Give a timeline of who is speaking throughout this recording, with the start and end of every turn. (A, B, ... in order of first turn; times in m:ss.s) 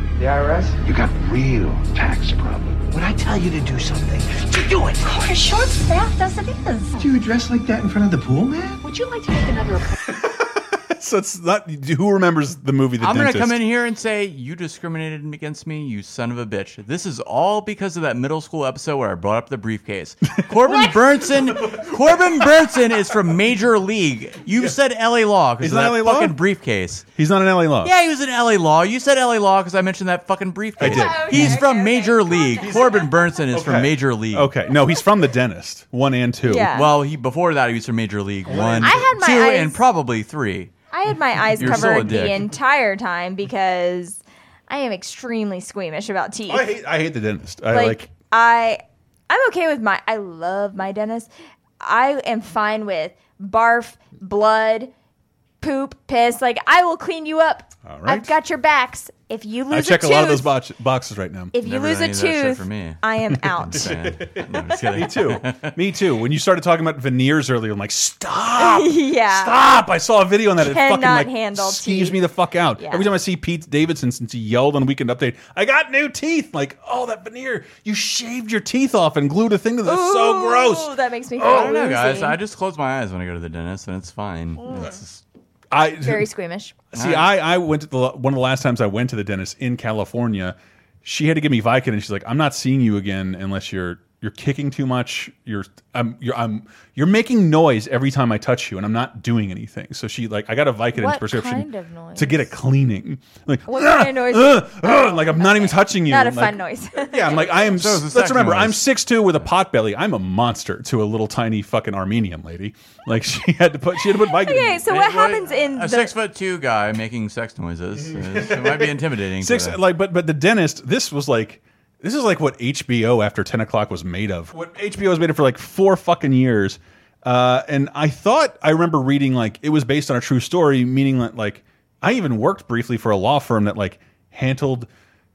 0:00.2-0:05.1 A
0:05.0-0:07.1 B
0:07.0-0:08.8 A
0:08.8-0:10.0 B
0:10.1-0:13.6 C
0:13.0-0:27.1 D
0:20.7-0:20.9 C
0:21.6-0:22.5 C
0:25.6-0:26.4 C
0:27.2-0:27.9 C
0:27.8-0:34.5 D
0:30.8-0:31.6 C
0:30.8-0:33.1 E
0:32.6-0:36.7 C
0:36.5-0:36.9 E
0:36.7-0:40.7 D
0:38.4-0:39.1 C
0:38.8-0:39.8 E
0:40.9-0:46.7 E
0:41.6-0:42.5 D
0:41.6-0:42.3 C
0:46.5-0:48.1 C
0:47.7-0:51.3 E
0:51.8-0:54.9 E
0:55.6-1:00.5 E
0:57.8-0:58.3 C
0:59.7-1:01.5 C
1:01.5-1:03.9 E
1:01.6-1:03.0 D
1:03.6-1:05.7 D
1:03.7-1:21.8 C
1:08.6-1:09.5 E
1:10.6-1:12.2 E
1:12.8-1:13.1 E
1:19.8-1:22.4 E
1:21.4-1:25.2 D
1:24.6-1:24.9 E
1:25.7-1:26.3 C
1:26.0-1:26.8 E
1:26.9-1:54.8 C
1:26.9-1:27.3 D
1:40.9-1:42.5 E
1:43.7-1:47.5 E
1:47.7-1:48.8 D
1:54.0-1:56.1 E
1:54.9-1:59.8 D
1:58.0-2:14.9 C